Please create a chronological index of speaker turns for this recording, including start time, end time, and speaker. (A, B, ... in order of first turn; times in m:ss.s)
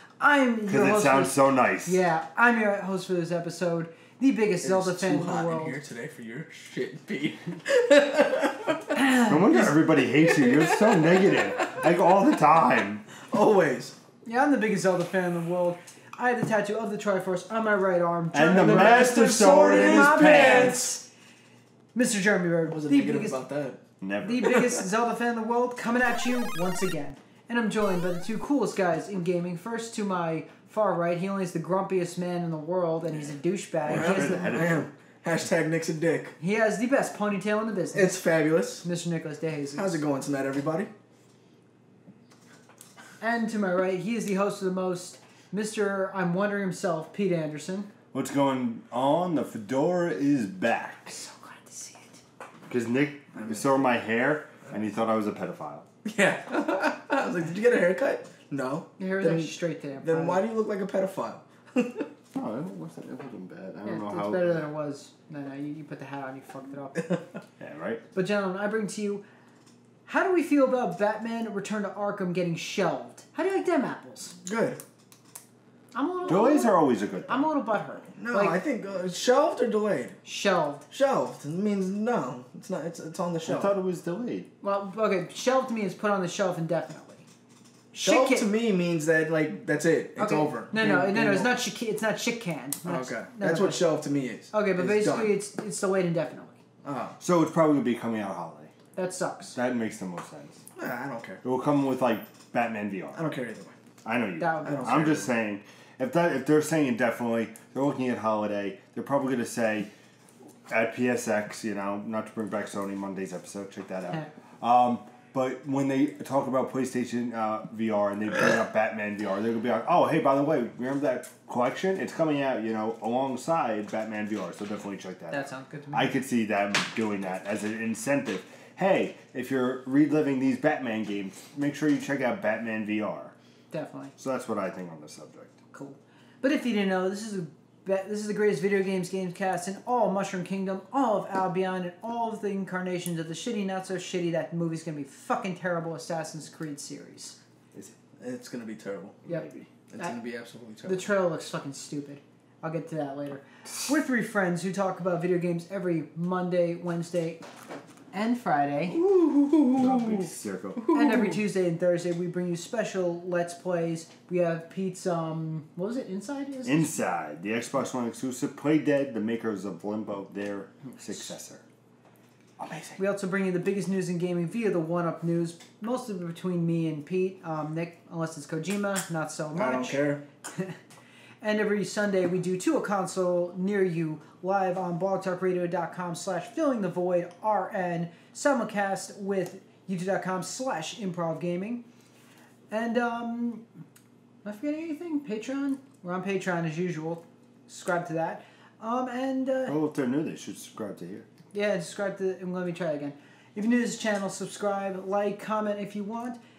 0:00.2-0:05.8 A
0:00.7-0:02.0 B
0:04.6-0:09.0 C
0:08.9-0:09.7 A
0:09.3-0:13.0 B
0:10.2-0:11.9 C
0:13.2-0:13.9 C
0:14.2-0:21.0 A
0:18.3-0:20.8 B
0:18.5-0:21.0 C
0:21.9-0:23.4 A
0:22.7-0:23.8 C
0:24.0-0:24.5 B
0:24.2-0:34.6 A
0:24.4-0:24.8 C
0:33.8-0:34.9 B
0:33.9-0:36.4 C
0:36.4-0:38.1 A
0:37.9-0:38.8 C
0:38.8-0:40.0 A
0:39.8-0:40.9 C
0:43.2-0:47.9 A
0:48.1-0:51.2 B
0:51.2-0:52.2 A
0:52.7-0:55.9 B
0:53.4-0:53.7 C
0:56.0-1:02.1 C
0:59.0-1:00.4 A
1:02.3-1:04.6 B
1:03.8-1:07.2 A
1:07.6-1:08.0 B
1:08.1-1:09.2 A
1:10.0-1:14.4 A
1:14.4-1:14.8 C
1:15.9-1:18.6 A
1:16.3-1:17.4 B
1:18.2-1:20.2 C
1:20.2-1:20.8 A
1:20.9-1:23.7 C
1:23.4-1:24.5 B
1:24.6-1:27.2 A
1:27.9-1:28.5 A
1:28.0-1:31.6 C
1:30.2-1:33.8 A
1:32.8-1:35.4 C
1:34.5-1:36.6 A
1:36.8-1:37.2 C
1:37.2-1:38.7 B
1:39.0-1:39.5 A
1:39.5-1:40.6 B
1:40.8-1:41.4 C
1:41.4-1:43.2 B
1:43.2-1:43.7 C
1:44.0-1:49.9 B
1:44.4-1:45.0 A
1:44.6-1:45.3 C
1:50.7-2:13.3 B
2:05.3-2:06.2 A
2:13.7-2:14.1 A
2:14.2-2:15.6 B
2:15.7-2:27.4 A
2:28.2-2:29.2 C
2:29.2-2:29.7 B
2:29.9-2:31.0 C
2:30.8-2:37.4 A
2:38.1-2:39.0 A
2:38.9-2:41.4 C
2:39.8-2:40.9 B
2:40.9-2:46.9 A
2:46.6-2:51.6 B
2:52.6-2:53.0 C
2:53.0-3:00.0 A
2:59.5-3:00.2 C
3:00.5-3:00.8 A
3:01.4-3:11.8 A
3:12.7-3:13.6 A
3:14.4-3:19.8 A
3:19.7-3:21.3 B
3:21.5-3:26.4 A